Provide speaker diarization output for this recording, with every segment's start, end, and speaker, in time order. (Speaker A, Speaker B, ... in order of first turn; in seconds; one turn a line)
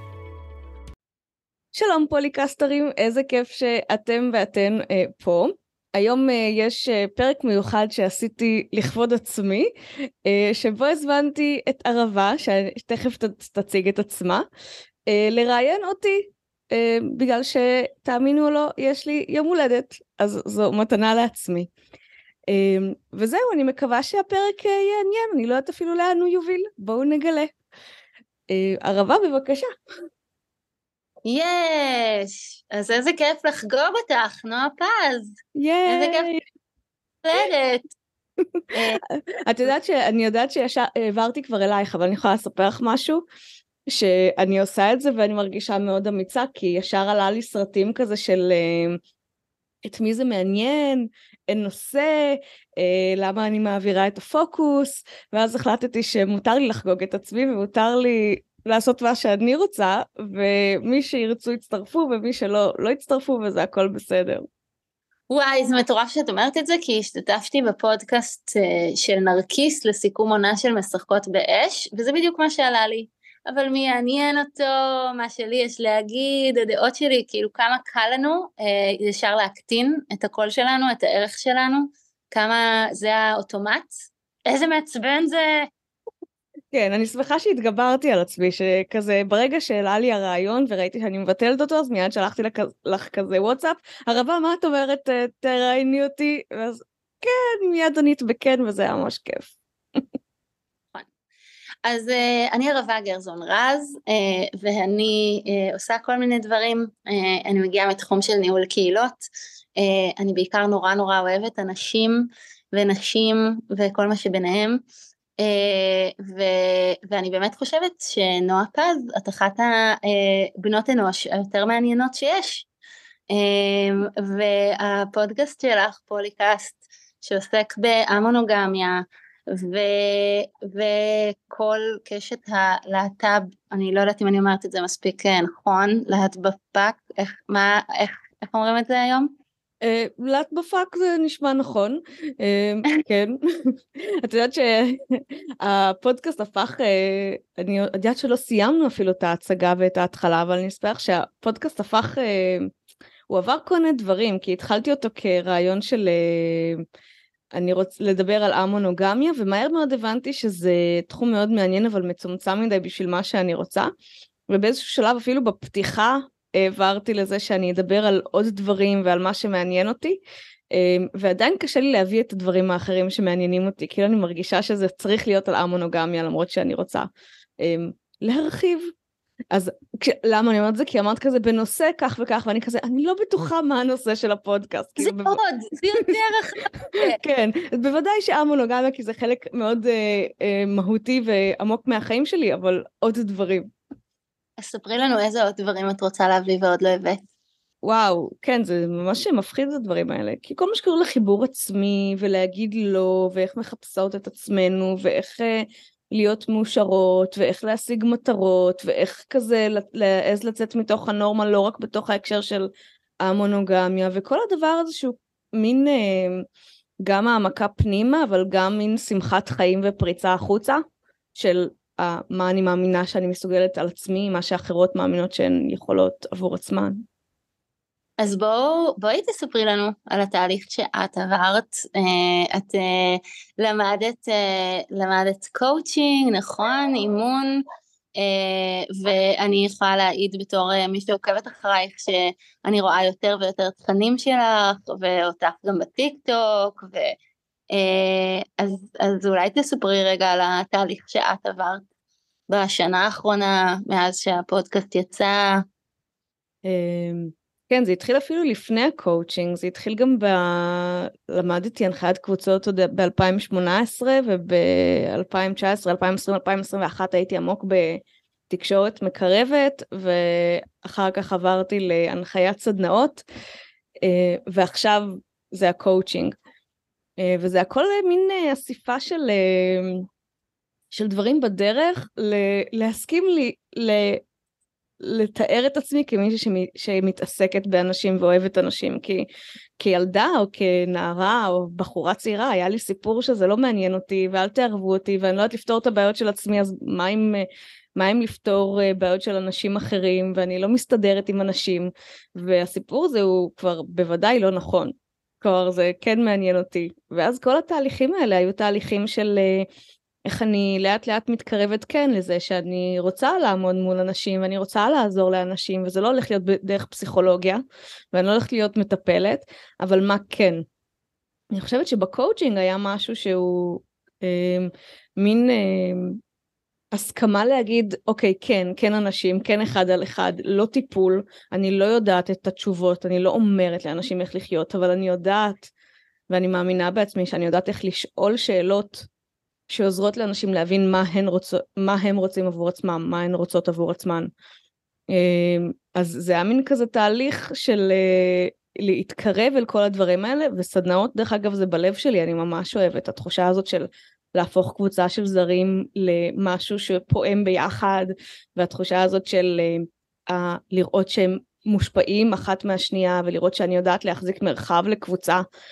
Speaker A: 1.7-9.7
Speaker A: 10.2-14.4
Speaker A: 15.1-21.7
Speaker A: 22.5-27.5
Speaker A: 28.5-29.7
Speaker B: 31.2-35.4
Speaker A: 35.5-36.4
Speaker B: 35.9-36.3
Speaker B: 37.2-37.9
Speaker B: 38.7-39.0
Speaker A: 39.1-43.2
Speaker A: 43.9-49.0
Speaker A: 49.8-64.5
Speaker B: 65.3-83.9
Speaker B: 84.5-85.7
Speaker A: 86.7-99.5
Speaker B: 101.8-114.8
Speaker B: 115.4-122.7
Speaker B: 123.3-139.3
Speaker A: 139.8-152.7
Speaker A: 153.3-156.8
Speaker A: 157.6-163.9
Speaker A: 164.5-170.2
Speaker A: 170.7-177.1
Speaker A: 177.6-178.9
Speaker A: 179.5-185.4
Speaker B: 185.0-187.2
Speaker A: 187.1-193.7
Speaker B: 194.6-197.2
Speaker A: 197.8-212.7
Speaker A: 213.2-216.4
Speaker A: 217.0-220.8
Speaker A: 221.3-227.0
Speaker B: 228.2-237.6
Speaker B: 238.2-247.1
Speaker B: 247.7-251.8
Speaker B: 252.5-255.6
Speaker A: 256.6-273.2
Speaker A: 274.0-276.4
Speaker A: 277.2-280.1
Speaker A: 280.9-284.2
Speaker A: 285.0-289.2
Speaker A: 289.8-309.7
Speaker A: 310.2-317.6
Speaker A: 318.1-320.6
Speaker A: 321.5-326.2
Speaker A: 326.9-335.7
Speaker A: 336.3-339.1
Speaker A: 339.7-344.3
Speaker A: 345.1-365.4